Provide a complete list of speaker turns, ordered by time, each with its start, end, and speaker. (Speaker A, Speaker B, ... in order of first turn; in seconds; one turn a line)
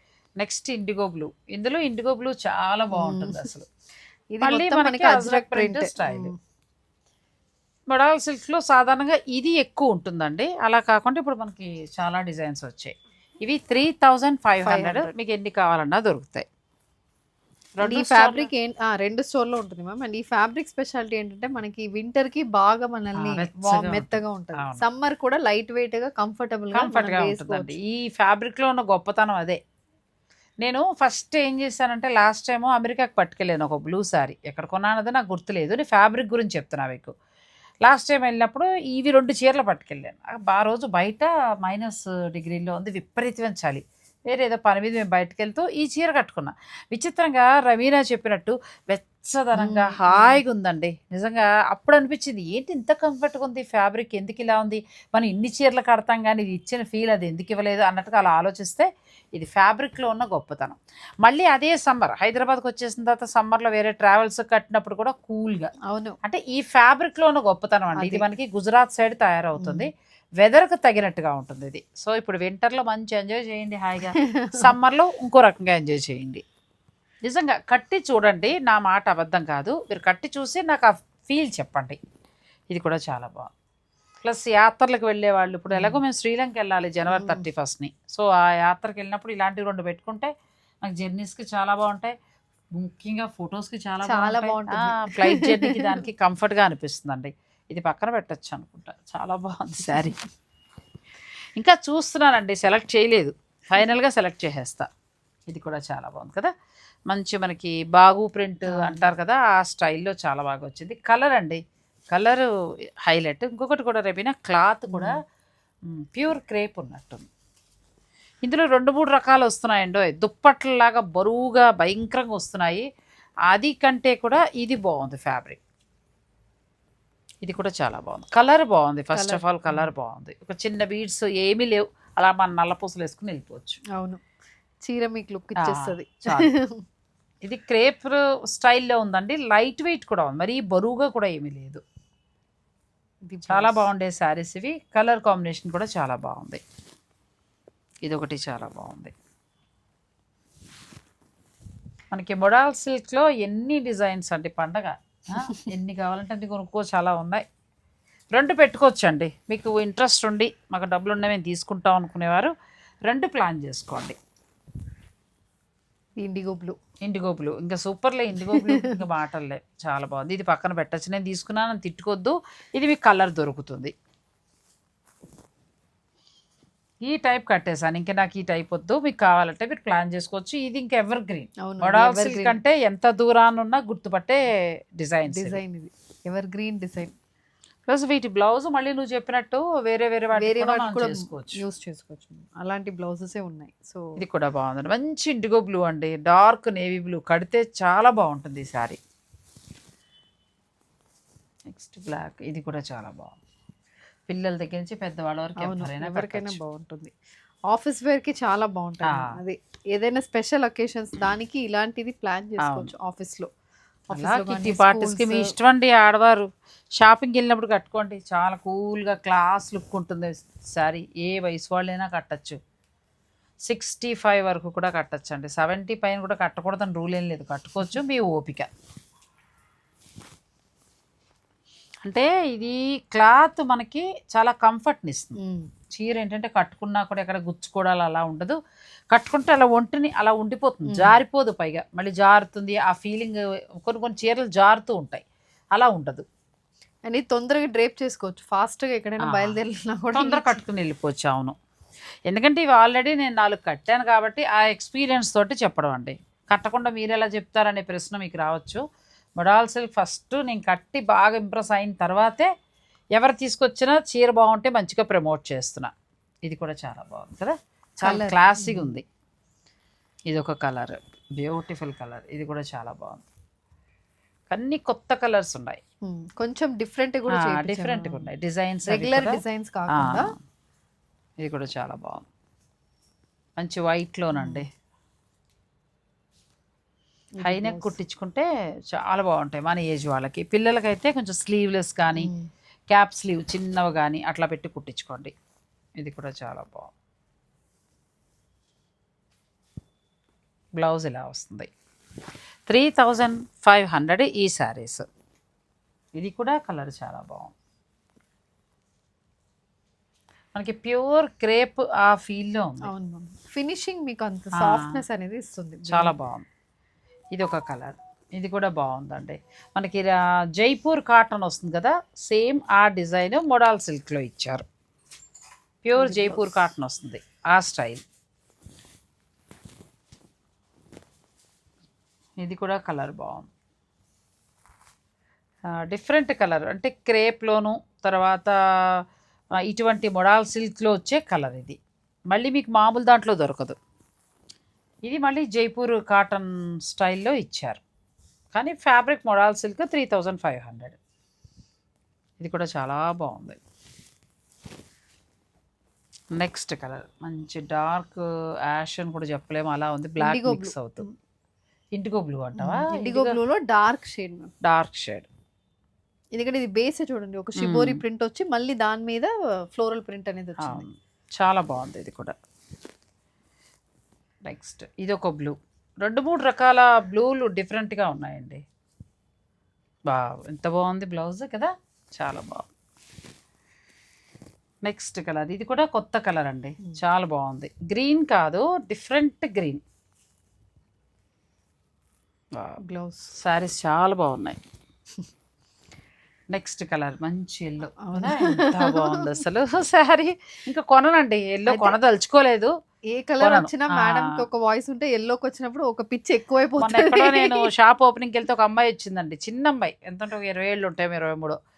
Speaker A: 0.4-3.7
Speaker B: 2.9-3.5
Speaker B: 4.3-6.3
Speaker A: 4.4-6.3
Speaker A: 7.9-16.4
Speaker B: 14.6-15.1
Speaker A: 17.8-18.5
Speaker B: 17.8-27.8
Speaker A: 23.2-24.8
Speaker A: 26.7-29.6
Speaker A: 30.6-37.1
Speaker A: 37.8-65.7
Speaker B: 49.5-50.4
Speaker B: 65.9-66.2
Speaker A: 66.2-76.4
Speaker B: 67.9-68.2
Speaker B: 69.6-69.9
Speaker B: 74.1-74.6
Speaker A: 77.2-82.0
Speaker A: 82.7-83.5
Speaker A: 84.2-90.3
Speaker B: 85.7-86.0
Speaker B: 87.1-87.4
Speaker A: 90.8-92.1
Speaker A: 92.8-100.2
Speaker B: 94.0-96.0
Speaker A: 101.6-104.9
Speaker A: 105.5-106.5
Speaker A: 107.1-111.6
Speaker B: 108.7-109.1
Speaker A: 112.1-112.5
Speaker A: 113.0-115.1
Speaker B: 114.9-115.2
Speaker A: 115.9-117.2
Speaker A: 118.4-122.9
Speaker A: 123.5-125.6
Speaker A: 127.4-133.8
Speaker B: 129.1-129.9
Speaker B: 133.9-134.2
Speaker B: 134.8-136.8
Speaker A: 135.6-136.5
Speaker A: 137.4-141.8
Speaker B: 143.3-143.8
Speaker A: 143.5-146.6
Speaker A: 148.0-149.1
Speaker A: 152.1-157.4
Speaker A: 158.3-162.5
Speaker A: 163.1-164.2
Speaker B: 166.2-166.8
Speaker A: 167.0-173.9
Speaker B: 168.4-169.0
Speaker A: 177.0-184.4
Speaker B: 181.7-182.6
Speaker A: 184.9-185.6
Speaker B: 185.3-187.1
Speaker A: 187.8-191.6
Speaker B: 190.3-194.1
Speaker A: 194.2-199.0
Speaker A: 201.7-203.3
Speaker A: 204.3-206.6
Speaker B: 205.6-207.1
Speaker B: 207.7-213.5
Speaker A: 209.1-209.3
Speaker A: 212.6-212.9
Speaker B: 214.1-215.5
Speaker A: 214.1-222.6
Speaker A: 223.7-228.7
Speaker A: 232.0-235.4
Speaker B: 235.4-235.7
Speaker A: 235.9-238.6
Speaker A: 239.1-245.2
Speaker B: 240.8-241.2
Speaker A: 245.8-246.2
Speaker B: 247.1-250.6
Speaker A: 249.2-249.6
Speaker A: 250.1-251.6
Speaker A: 252.3-258.8
Speaker A: 259.4-262.5
Speaker A: 263.1-265.9
Speaker A: 266.4-269.0
Speaker B: 268.0-268.9
Speaker A: 270.3-273.2
Speaker A: 274.5-275.8
Speaker B: 276.1-278.3
Speaker A: 277.4-279.4
Speaker B: 278.9-280.3
Speaker A: 279.9-280.3
Speaker A: 281.4-282.3
Speaker A: 283.6-284.7
Speaker B: 284.3-284.6
Speaker B: 287.4-287.9
Speaker A: 287.4-292.3
Speaker B: 292.1-292.5
Speaker A: 292.9-295.3
Speaker A: 296.0-296.9
Speaker A: 300.8-301.7
Speaker A: 302.7-305.1
Speaker A: 306.1-307.5
Speaker A: 310.5-312.9
Speaker B: 312.8-316.1
Speaker A: 314.6-315.0
Speaker A: 315.9-316.4
Speaker A: 317.3-324.6
Speaker A: 325.8-328.0
Speaker B: 326.0-326.6
Speaker A: 332.4-333.5
Speaker A: 335.7-339.0
Speaker A: 339.6-341.8
Speaker A: 342.3-343.8
Speaker A: 345.0-347.8
Speaker A: 348.5-351.0
Speaker A: 352.4-353.6
Speaker A: 356.3-361.1
Speaker B: 360.2-361.1
Speaker A: 361.9-363.4
Speaker B: 362.5-364.5
Speaker A: 364.6-365.2
Speaker B: 366.3-370.8
Speaker A: 367.6-368.0
Speaker A: 370.6-372.4
Speaker A: 374.4-378.6
Speaker A: 380.1-382.7
Speaker A: 384.8-389.8
Speaker B: 392.8-393.3
Speaker A: 393.3-394.6
Speaker A: 396.5-402.7
Speaker B: 398.0-399.4
Speaker B: 401.7-401.9
Speaker B: 403.1-407.6
Speaker A: 403.4-404.3
Speaker A: 406.8-411.6